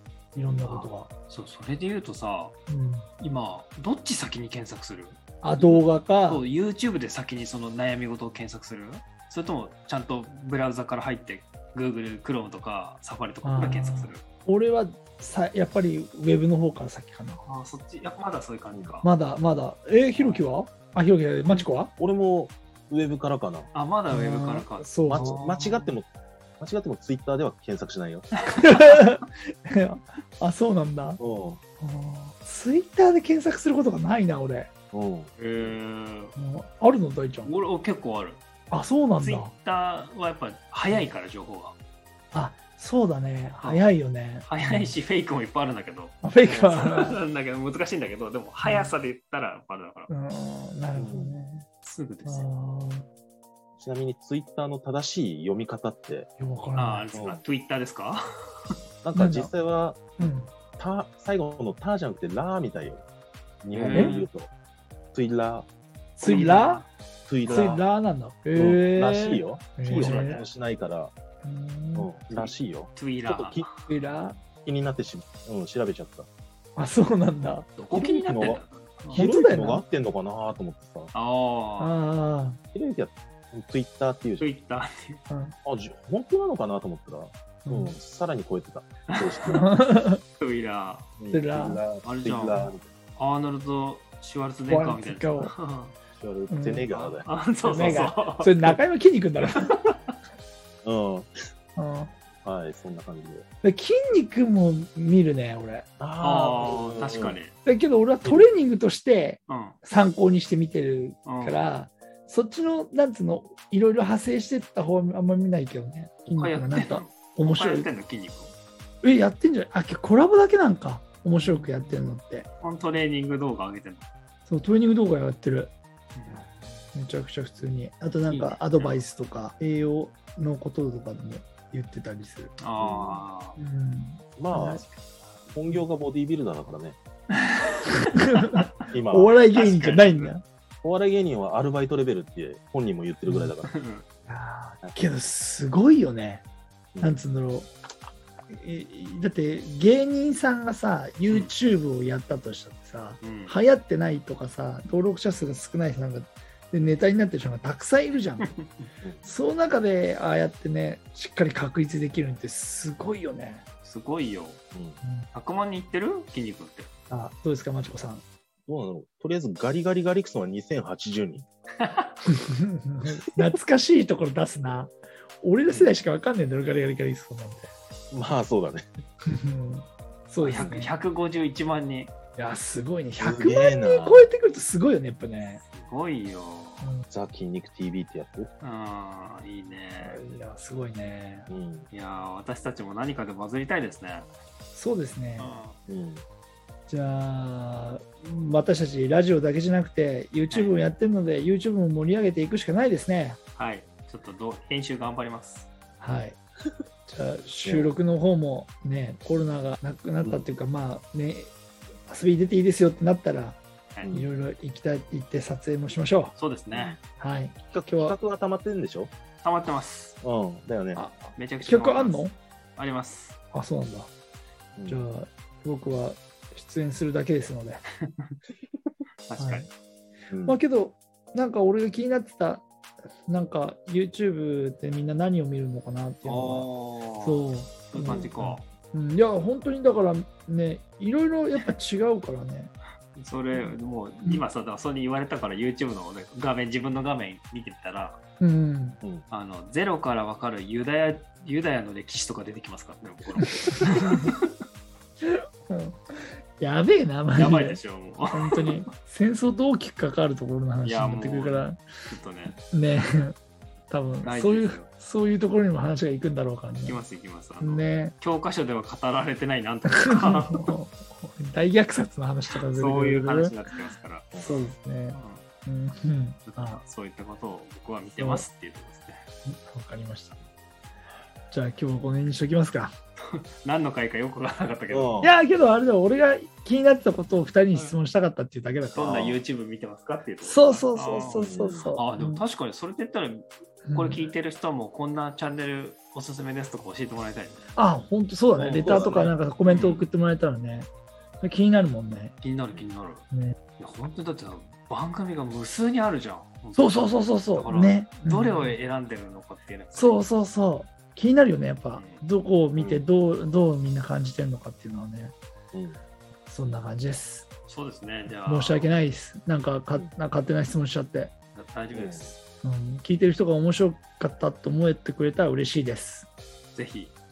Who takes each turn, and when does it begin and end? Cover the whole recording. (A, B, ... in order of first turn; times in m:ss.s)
0:00.3-0:01.1 A
0:00.6-0:02.6 B
0:02.7-0:03.1 A
0:03.2-0:14.2 B
0:05.4-0:06.4 A
0:13.4-0:17.4 A
0:17.4-0:19.1 B
0:19.0-0:21.9 A
0:20.1-0:20.4 B
0:22.0-0:23.7 C
0:23.7-0:25.9 B
0:24.1-0:25.3 A
0:25.1-0:26.1 C
0:26.6-0:28.3 C
0:28.5-0:29.0 B
0:28.6-0:31.2 A
0:31.2-0:31.6 C
0:31.8-0:34.7 A
0:34.9-0:35.8 C
0:35.4-0:36.3 B
0:36.4-0:37.5 A
0:37.4-0:38.4 B
0:38.7-0:39.5 A
0:39.2-0:41.8 B
0:42.3-0:44.9 A
0:43.6-0:43.9 B
0:44.4-0:50.1 B
0:46.2-0:47.2 A
0:46.4-0:47.0 C
0:48.6-0:48.9 A
0:50.1-0:51.6 A
0:50.9-0:51.4 C
0:51.8-0:52.5 B
0:52.2-0:53.1 A
0:53.8-0:56.3 C
0:56.4-0:57.1 A
0:56.8-0:58.2 B
0:57.1-0:57.4 C
0:59.0-1:03.0 C
0:59.1-0:59.5 A
1:00.2-1:00.5 A
1:03.6-1:04.5 C
1:03.7-1:04.3 B
1:03.9-1:04.2 A
1:05.1-1:05.7 C
1:06.2-1:06.8 A
1:06.2-1:06.9 B
1:07.3-1:07.8 C
1:07.4-1:10.4 A
1:07.4-1:07.8 B
1:08.5-1:11.1 C
1:09.9-1:10.5 B
1:11.4-1:12.1 A
1:11.9-1:13.7 C
1:12.3-1:13.8 B
1:13.8-1:14.4 A
1:14.6-1:16.3 C
1:16.8-1:17.7 A
1:17.8-1:19.2 B
1:17.9-1:18.6 C
1:19.1-1:19.8 A
1:19.1-1:21.1 C
1:21.1-1:22.0 B
1:21.8-1:22.6 A
1:22.7-1:24.5 C
1:24.4-1:25.2 B
1:25.3-1:25.5 A
1:25.6-1:29.6 C
1:27.6-1:27.9 A
1:29.1-1:29.6 B
1:29.5-1:30.2 A
1:30.4-1:31.1 B
1:31.2-1:32.8 C
1:31.3-1:31.8 A
1:32.0-1:35.9 B
1:34.7-1:35.5 A
1:36.1-1:38.1 C
1:36.5-1:36.9 A
1:36.9-1:38.5 B
1:37.6-1:39.8 A
1:39.7-1:40.1 B
1:40.8-1:41.3 C
1:41.8-1:42.1 A
1:42.4-1:43.4 C
1:43.6-1:45.9 A
1:46.0-1:47.4 C
1:46.2-1:47.5 B
1:47.6-1:57.9 A
1:48.2-1:48.5 C
1:49.5-1:49.8 B
1:51.2-1:51.6 B
1:56.3-1:58.5 B
1:59.0-2:02.5 A
2:01.3-2:02.1 B
2:02.6-2:04.0 B
2:04.5-2:05.7 A
2:06.1-2:06.7 B
2:06.9-2:12.6 A
2:08.3-2:09.0 B
2:12.6-2:13.6 B
2:12.8-2:13.2 C
2:13.6-2:14.9 A
2:14.4-2:14.8 C
2:14.9-2:15.4 B
2:15.5-2:17.0 C
2:17.6-2:18.7 B
2:18.0-2:20.4 A
2:18.9-2:19.4 C
2:19.5-2:20.3 B
2:20.8-2:23.7 C
2:23.2-2:23.6 A
2:23.6-2:24.0 B
2:24.3-2:26.4 A
2:27.0-2:27.7 A
2:28.5-2:38.5 A
2:33.2-2:33.6 B
2:38.4-2:38.9 B
2:39.2-2:43.6 A
2:43.8-2:44.6 B
2:45.0-2:45.3 A
2:45.3-2:46.9 B
2:47.1-2:48.2 A
2:48.7-2:51.4 C
2:51.8-2:52.2 B
2:52.5-2:57.7 A
2:55.7-2:55.9 C
2:58.1-2:58.8 C
2:59.2-3:00.9 A
3:00.4-3:02.1 B
3:02.4-3:05.6 A
3:03.2-3:04.3 C
3:05.4-3:06.9 B
3:07.1-3:08.5 C
3:08.6-3:10.2 B
3:10.0-3:11.5 A
3:11.5-3:11.9 C
3:11.9-3:14.3 B
3:14.7-3:15.6 A
3:15.4-3:15.8 B
3:15.9-3:16.2 C
3:16.9-3:23.4 A
3:20.5-3:20.7 B
3:23.6-3:25.7 B
3:26.0-3:26.4 A
3:27.1-3:31.5 A
3:27.6-3:27.9 C
3:30.2-3:30.5 C
3:32.1-3:33.6 A
3:34.1-3:36.3 A
3:36.4-3:37.0 B
3:36.7-3:37.0 C
3:37.2-3:38.2 A
3:37.7-3:39.1 C
3:39.4-3:40.2 B
3:40.2-3:41.0 C
3:40.9-3:42.3 A
3:41.3-3:43.4 B
3:43.5-3:44.1 A
3:44.8-3:45.0 C
3:44.9-3:47.8 A
3:49.3-3:49.6 B
3:49.4-3:49.7 A
3:50.3-3:50.6 C
3:50.4-3:52.7 A
3:53.3-3:56.7 A
3:56.2-3:58.6 B
3:57.2-4:02.7 A
4:03.1-4:08.2 B
4:08.4-4:09.0 A
4:09.3-4:14.5 B
4:14.0-4:14.3 A
4:15.2-4:17.8 A
4:17.3-4:18.8 B
4:18.3-4:21.8 A
4:20.8-4:22.6 B
4:22.7-4:23.3 A
4:23.9-4:27.0 A
4:24.2-4:24.9 B
4:26.8-4:30.7 B
4:27.6-4:28.1 A
4:29.9-4:33.5 A
4:32.7-4:34.5 B
4:34.3-4:34.7 C
4:34.4-4:36.8 A
4:35.1-4:35.4 B
4:36.4-4:39.2 B
4:38.2-4:38.4 A
4:39.4-4:40.4 A
4:41.5-4:42.9 A
4:43.3-4:45.2 B
4:44.9-4:45.3 C
4:45.2-4:49.4 A
4:47.7-4:48.0 B
4:48.9-4:57.7 B
4:49.0-4:49.4 C
4:50.4-4:52.4 A
4:51.3-4:51.9 C
4:53.8-4:54.2 A
4:57.7-5:00.9 A
4:58.6-5:00.0 B
4:58.8-4:59.3 C
5:01.4-5:02.4 A
5:02.4-5:03.2 B
5:03.3-5:03.6 A
5:03.8-5:10.2 B
5:06.7-5:08.8 A
5:09.9-5:15.4 A
5:11.9-5:12.2 B
5:12.8-5:13.1 C
5:15.7-5:16.0 C
5:16.5-5:17.5 A
5:17.7-5:18.9 B
5:18.4-5:21.3 A
5:21.5-5:22.4 B
5:21.9-5:22.3 C
5:22.6-5:26.3 A
5:26.7-5:27.1 B